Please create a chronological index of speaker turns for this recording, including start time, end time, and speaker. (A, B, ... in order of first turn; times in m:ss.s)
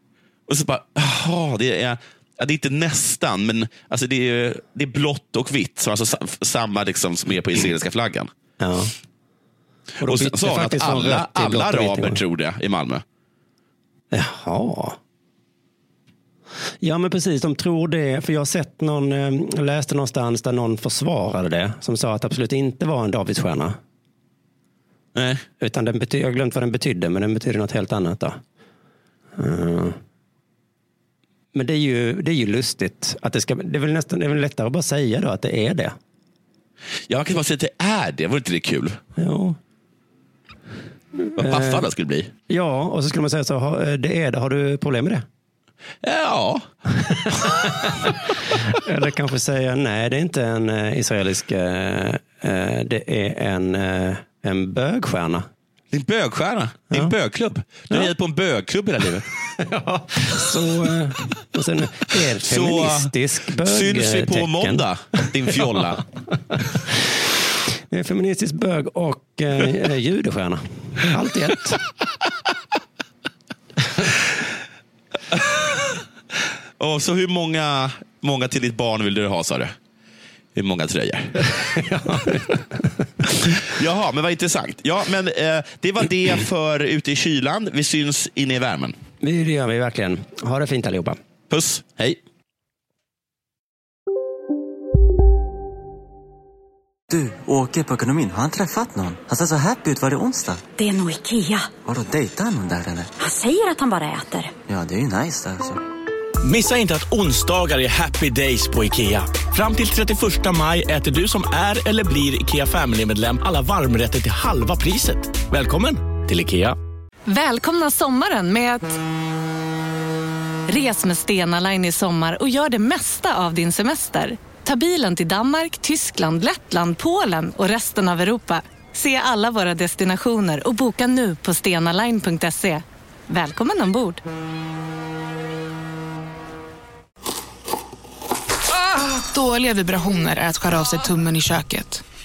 0:00.5-0:08.3 A
0:08.6-0:08.9 B
0:10.0-0:12.2 B
0:10.0-0:13.0 A
0:14.1-0:15.0 B
0:16.8-0:23.8 B
0:25.1-0:25.4 A
0:25.6-0:28.4 B
0:29.4-0:30.0 B
0:31.5-0:35.9 B
0:37.1-0:39.0 A
0:39.2-0:39.6 B
0:41.2-0:41.9 B
0:41.4-0:42.3 A
0:42.5-0:45.2 B
0:46.0-0:46.7 A
0:47.2-0:55.4 B
0:55.9-0:59.2 A
0:59.6-1:05.6 B
1:02.3-1:06.0 A
1:06.5-1:06.8 B
1:07.9-1:11.8 B
1:15.3-1:16.0 A
1:16.8-1:19.7 A
1:20.5-1:21.5 A
1:21.6-1:22.6 B
1:23.2-1:29.0 A
1:29.2-1:31.2 B
1:31.5-1:32.2 A
1:37.1-1:40.6 C
1:40.8-1:41.7 D
1:41.8-1:43.1 C
1:43.2-1:44.5 D
1:44.7-1:45.8 C
1:46.4-1:56.8 E
1:57.3-1:59.0 F
2:00.7-2:14.2 F
2:18.8-2:22.0 G